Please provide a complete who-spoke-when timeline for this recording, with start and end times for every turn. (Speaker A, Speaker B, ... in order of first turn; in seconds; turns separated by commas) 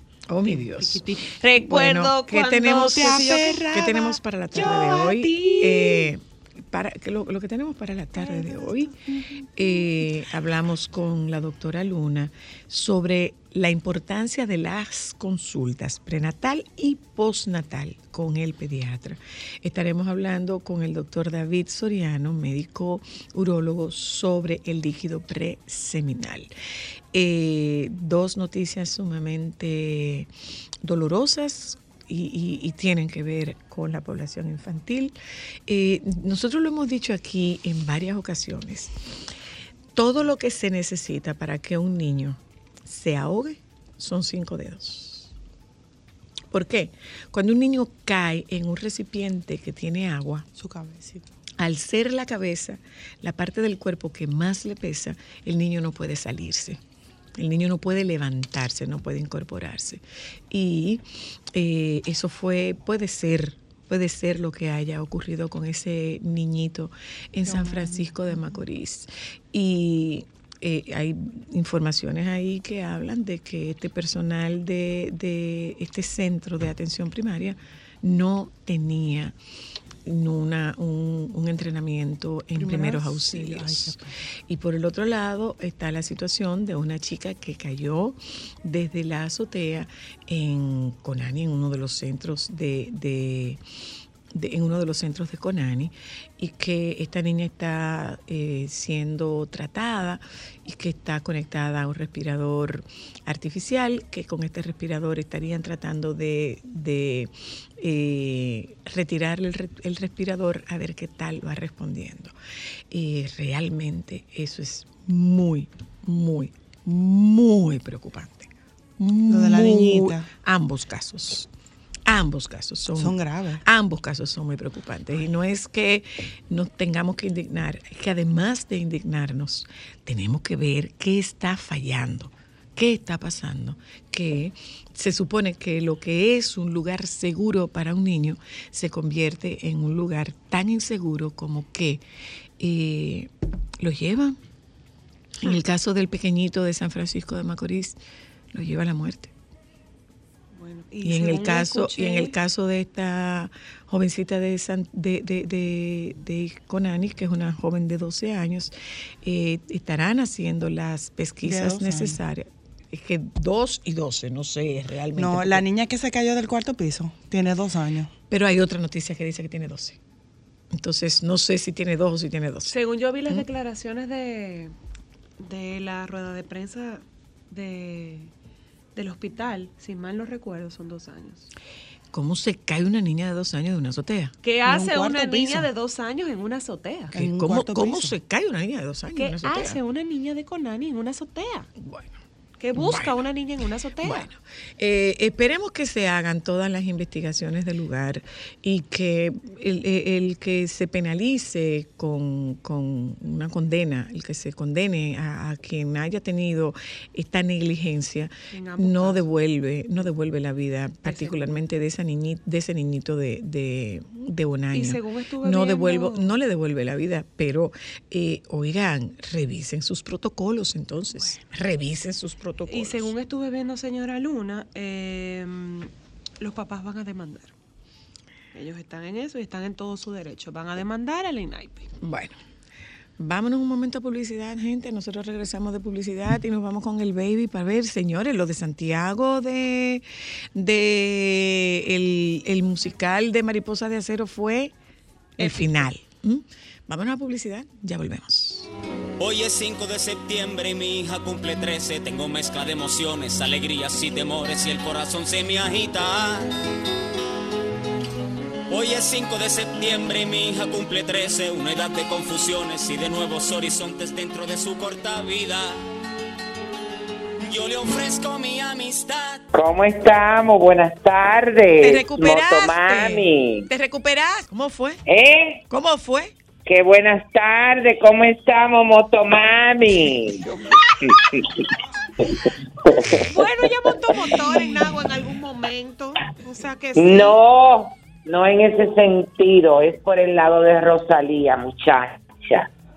Speaker A: 0.3-8.9, Speaker B: 0.5-6.1, Speaker B: 8.2-9.4, Speaker A: 9.5-26.5, Speaker A: 27.1-30.3, Speaker A: 30.8-39.0, Speaker A: 39.9-45.3, Speaker A: 46.5-50.5, Speaker C: 50.5-51.2, Speaker A: 51.6-56.8, Speaker A: 57.3-79.3, Speaker A: 80.0-93.6, Speaker C: 82.5-84.0, Speaker A: 94.3-112.3, Speaker A: 112.9-121.5, Speaker C: 119.3-120.3, Speaker A: 122.0-142.0, Speaker C: 123.0-123.6, Speaker A: 142.6-144.4, Speaker A: 145.4-148.0, Speaker A: 148.5-149.3, Speaker B: 150.5-152.3, Speaker A: 151.0-165.7, Speaker C: 161.4-162.2, Speaker C: 165.2-168.1, Speaker A: 168.3-170.0, Speaker A: 170.7-173.4, Speaker B: 172.7-174.7, Speaker B: 175.4-178.3, Speaker B: 178.9-181.5, Speaker A: 182.1-184.3, Speaker B: 184.4-187.1, Speaker C: 184.7-185.7, Speaker A: 187.1-189.8, Speaker C: 187.1-188.1, Speaker B: 189.2-191.7, Speaker A: 191.8-192.1, Speaker B: 192.6-194.2, Speaker A: 192.7-193.2, Speaker A: 194.0-223.1, Speaker B: 208.5-209.2, Speaker B: 211.0-211.6, Speaker B: 214.7-216.3, Speaker B: 222.7-227.5, Speaker B: 228.5-231.9, Speaker A: 232.0-232.4, Speaker A: 233.2-244.7, Speaker A: 245.4-248.7, Speaker B: 245.4-245.7, Speaker D: 249.2-256.5, Speaker D: 258.7-265.8, Speaker D: 267.4-269.4, Speaker E: 269.5-273.7, Speaker A: 271.8-275.0, Speaker E: 275.1-275.6, Speaker A: 275.7-276.3, Speaker E: 276.6-281.6, Speaker E: 282.8-283.4, Speaker B: 283.3-287.4, Speaker A: 284.3-284.9, Speaker E: 286.9-292.7